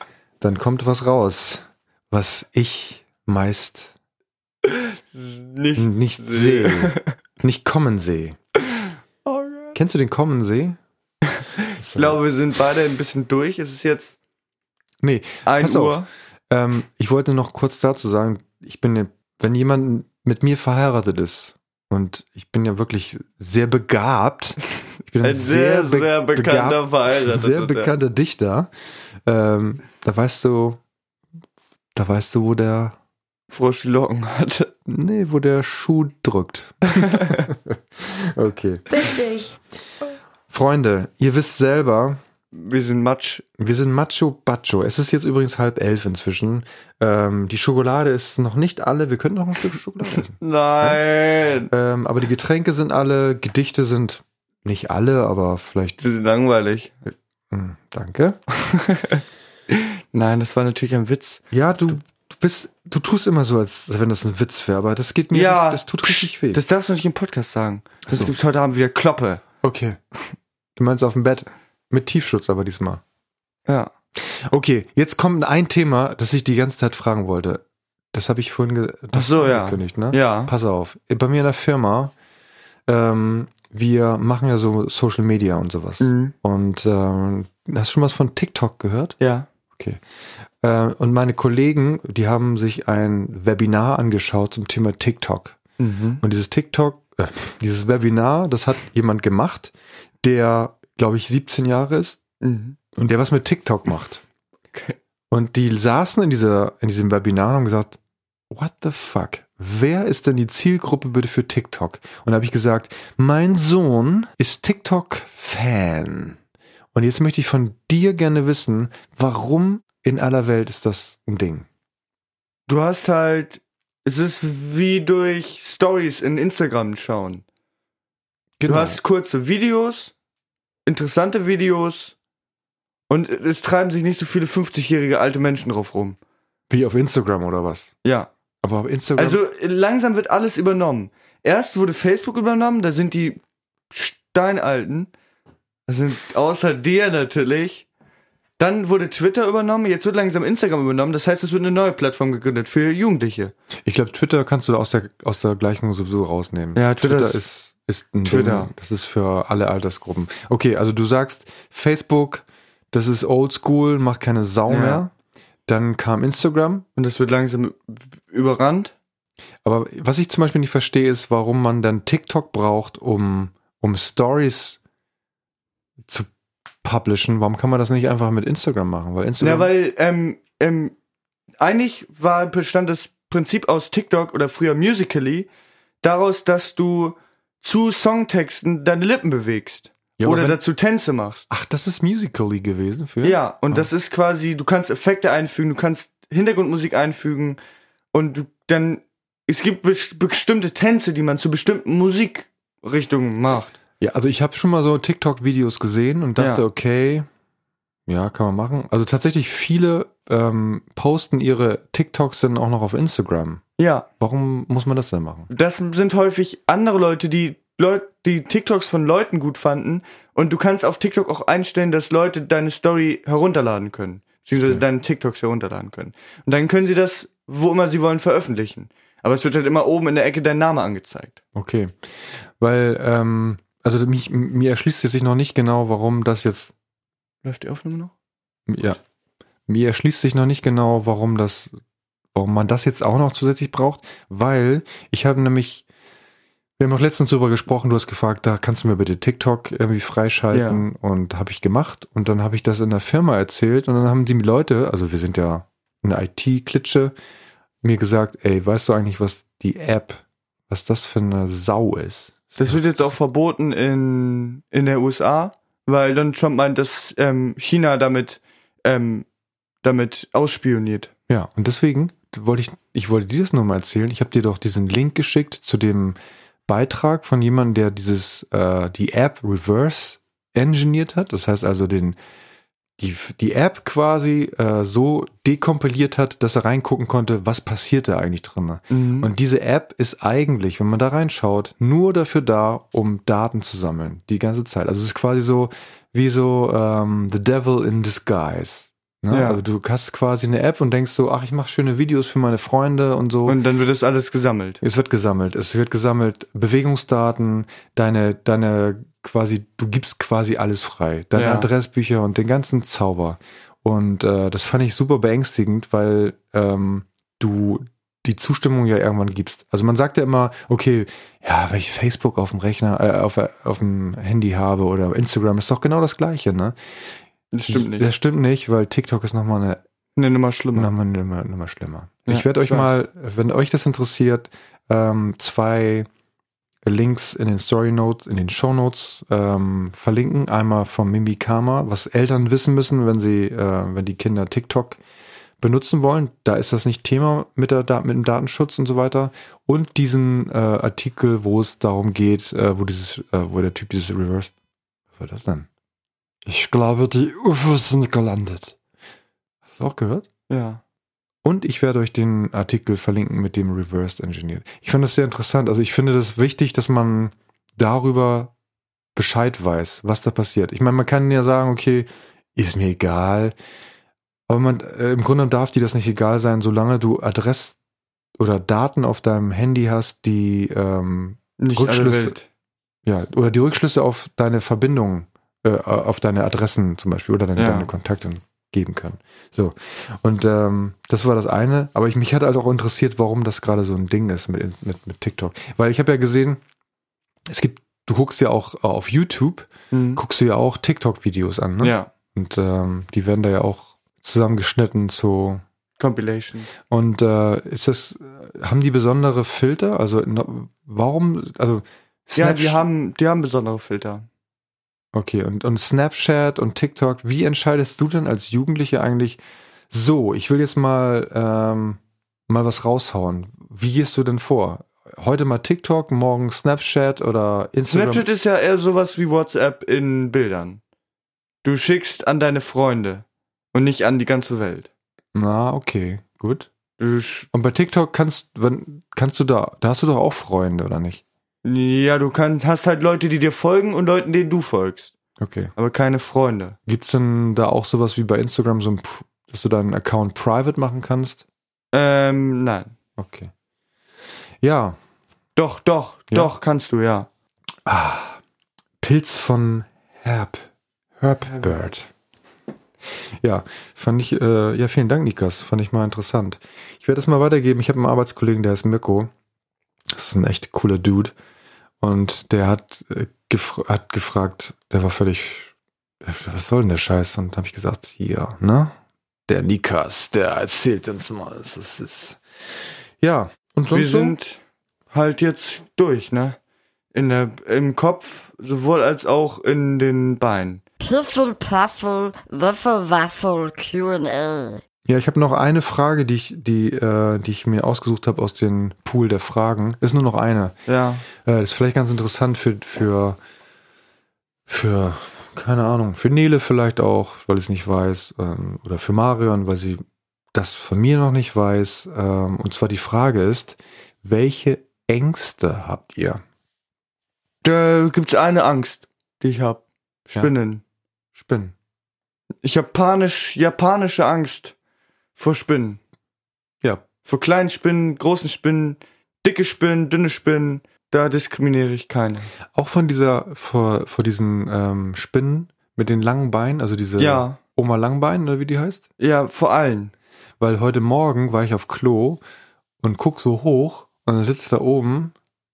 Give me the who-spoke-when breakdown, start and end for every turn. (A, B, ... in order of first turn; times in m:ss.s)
0:00.4-0:03.9 A
0:04.6-0:07.1 B
0:05.8-0:08.4 A
0:08.8-0:09.8 B
0:09.7-0:10.8 A
0:11.8-0:12.2 A
0:11.9-0:14.2 B
0:15.0-0:28.7 A
0:15.4-0:16.1 B
0:25.2-0:27.9 B
0:29.2-0:30.8 A
0:31.9-0:33.0 A
0:33.5-0:34.7 B
0:34.8-0:39.5 A
0:37.0-0:37.4 B
0:40.5-0:42.2 A
0:42.5-0:43.4 B
0:43.6-0:51.0 A
0:50.2-0:51.7 B
0:51.7-0:56.1 A
0:56.0-0:57.0 B
0:57.0-0:58.4 A
0:58.5-1:01.5 B
1:01.5-1:06.6 A
1:05.3-1:09.4 B
1:08.1-1:08.3 A
1:09.6-1:10.0 A
1:10.8-1:13.0 A
1:13.6-1:13.9 B
1:14.2-1:22.1 A
1:19.1-1:20.5 B
1:22.9-1:29.2 A
1:26.0-1:26.3 B
1:29.2-1:29.5 B
1:29.7-1:30.0 A
1:30.6-1:35.6 A
1:35.8-1:36.2 B
1:36.2-1:42.2 A
1:42.4-1:42.8 B
1:42.9-1:44.2 A
1:45.3-1:48.0 A
1:48.5-1:56.4 A
1:56.9-2:01.7 A
2:02.7-2:07.4 B
2:08.6-2:09.0 A
2:08.6-2:10.1 B
2:10.8-2:12.1 B
2:13.1-2:16.2 B
2:16.7-2:17.9 A
2:18.0-2:18.3 B
2:18.6-2:19.4 A
2:19.2-2:23.4 B
2:23.9-2:25.1 B
2:25.9-2:27.8 B
2:28.6-2:33.5 B
2:33.8-2:45.1 A
2:36.7-2:37.4 B
2:38.2-2:38.7 B
2:44.7-2:45.0 B
2:45.7-2:46.8 A
2:47.0-2:48.9 B
2:49.6-2:54.8 A
2:56.8-2:59.7 A
2:59.4-3:00.9 B
3:01.6-3:05.5 B
3:06.0-3:11.5 B
3:10.2-3:10.6 A
3:11.5-3:13.9 A
3:13.2-3:17.6 B
3:18.1-3:23.8 B
3:24.0-3:27.3 A
3:26.4-3:26.6 B
3:28.1-3:33.6 A
3:33.8-3:34.1 B
3:34.2-3:35.5 A
3:35.5-3:51.4 B
3:51.5-3:56.7 A
3:57.4-3:58.1 B
3:58.7-3:59.0 A
3:59.7-4:01.8 A
4:02.3-4:05.8 A
4:06.8-4:17.1 A
4:10.5-4:10.8 B
4:17.8-4:22.8 A
4:22.6-4:29.3 B
4:29.8-4:31.1 B
4:31.3-4:42.2 A
4:43.0-5:03.6 A
4:48.9-4:49.3 B
4:59.3-4:59.6 B
5:03.5-5:04.8 B
5:04.8-5:27.1 A
5:11.3-5:11.7 B
5:27.5-5:28.1 B
5:27.6-5:29.8 A
5:30.2-5:30.9 B
5:30.7-5:36.1 A
5:32.3-5:32.9 B
5:36.8-5:45.0 A
5:45.6-5:54.5 A
5:55.1-5:55.7 A
5:56.4-5:58.8 A
5:59.7-6:00.3 A
6:00.5-6:00.8 B
6:01.4-6:08.5 A
6:09.1-6:13.5 A
6:14.5-6:17.8 A
6:18.4-6:22.4 A
6:21.6-6:22.4 B
6:23.0-6:36.6 A
6:27.6-6:27.9 B
6:37.5-6:45.6 A
6:39.9-6:40.2 B
6:41.8-6:42.1 B
6:46.0-6:46.7 B
6:46.9-6:52.8 A
6:52.4-6:54.3 B
6:55.1-7:08.3 A
7:07.9-7:10.8 B
7:11.6-7:14.9 B
7:15.3-7:16.7 A
7:17.0-7:17.5 B
7:17.5-7:21.2 A
7:21.6-7:25.1 B
7:25.4-7:25.7 A
7:25.8-7:26.8 B
7:26.8-7:31.4 A
7:31.9-7:32.9 B
7:33.2-7:33.5 A
7:34.6-7:35.0 A
7:35.6-7:37.3 B
7:37.8-7:38.4 A
7:39.0-7:42.1 A
7:41.4-7:41.8 B
7:43.4-7:49.3 A
7:50.1-7:51.3 A
7:52.0-7:55.7 A
7:56.2-7:58.9 A
7:59.5-8:02.4 A
8:03.2-8:04.4 A
8:03.9-8:06.6 B
8:07.1-8:10.8 B
8:11.0-8:14.8 C
8:15.1-8:20.7 A
8:20.8-8:21.2 B
8:21.4-8:23.4 A
8:24.7-8:30.0 A
8:30.5-8:36.4 A
8:37.6-8:40.8 B
8:41.3-8:41.7 A
8:42.6-8:44.7 B
8:45.4-8:46.0 B
8:47.2-8:52.5 B
8:52.7-8:59.0 A
8:57.2-8:57.6 B
8:59.2-9:00.1 B
9:00.6-9:02.4 A
9:03.0-9:05.3 A